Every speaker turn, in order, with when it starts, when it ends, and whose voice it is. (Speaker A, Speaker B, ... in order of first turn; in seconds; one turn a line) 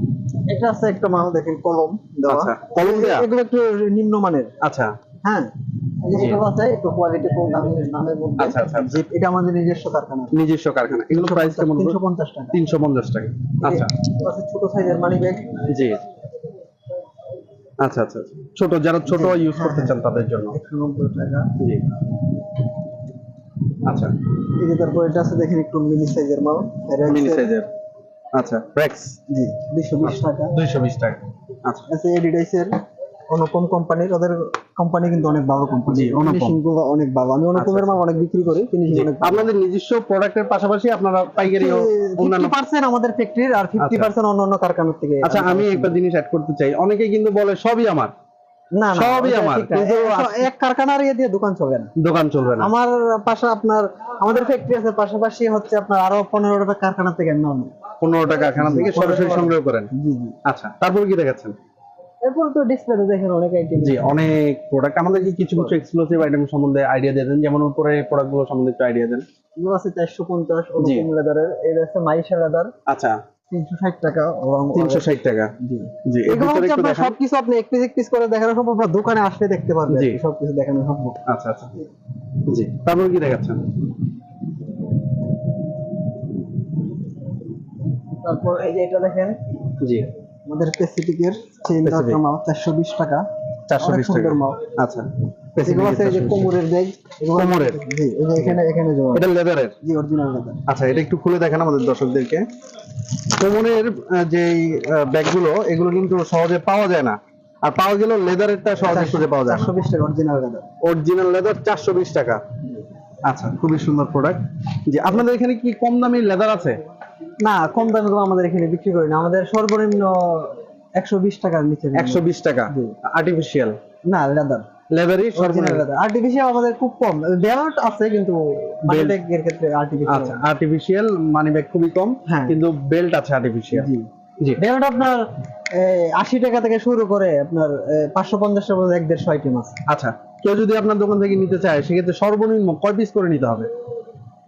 Speaker A: 0.5-4.5
Speaker B: 2.3-3.3
Speaker B: 4.6-5.0
Speaker A: 5.2-5.5
Speaker A: 6.0-12.6
Speaker B: 6.1-6.4
Speaker B: 8.4-9.0
Speaker B: 10.3-12.0
Speaker B: 12.5-13.9
Speaker A: 13.6-15.7
Speaker B: 15.7-16.0
Speaker B: 17.8-20.6
Speaker A: 19.1-20.0
Speaker A: 20.5-21.5
Speaker B: 21.6-21.9
Speaker B: 23.8-24.1
Speaker A: 24.5-27.5
Speaker B: 27.1-27.7
Speaker B: 28.3-29.2
Speaker A: 29.3-30.6
Speaker B: 30.0-31.9
Speaker A: 31.9-39.5
Speaker B: 35.9-36.6
Speaker B: 37.5-38.0
Speaker B: 38.9-42.5
Speaker A: 41.4-46.0
Speaker B: 43.8-44.1
Speaker B: 45.2-48.1
Speaker A: 48.8-51.9
Speaker B: 48.9-50.5
Speaker B: 52.0-52.7
Speaker A: 52.6-57.7
Speaker B: 58.0-59.9
Speaker A: 58.5-60.4
Speaker B: 60.5-61.5
Speaker A: 62.2-64.2
Speaker B: 63.8-69.2
Speaker A: 65.1-65.8
Speaker A: 69.6-72.7
Speaker B: 70.8-71.1
Speaker B: 72.9-73.2
Speaker A: 73.5-81.2
Speaker B: 74.7-75.5
Speaker B: 76.1-77.2
Speaker B: 79.9-80.2
Speaker B: 81.3-81.8
Speaker B: 82.5-83.7
Speaker A: 88.2-89.4
Speaker B: 89.8-90.1
Speaker A: 90.5-93.3
Speaker B: 91.8-92.2
Speaker B: 93.7-96.5
Speaker A: 93.8-94.6
Speaker A: 95.6-99.3
Speaker B: 97.3-97.8
Speaker B: 99.1-99.8
Speaker A: 99.8-100.6
Speaker B: 100.7-102.5
Speaker B: 103.2-109.7
Speaker A: 108.8-110.7
Speaker B: 110.8-112.4
Speaker B: 113.2-116.8
Speaker A: 117.4-123.0
Speaker B: 122.0-123.8
Speaker A: 124.1-124.7
Speaker B: 124.9-125.8
Speaker A: 125.3-130.4
Speaker B: 128.9-129.2
Speaker B: 130.1-133.9
Speaker A: 132.3-132.6
Speaker A: 133.7-134.1
Speaker A: 134.6-139.8
Speaker B: 139.9-143.7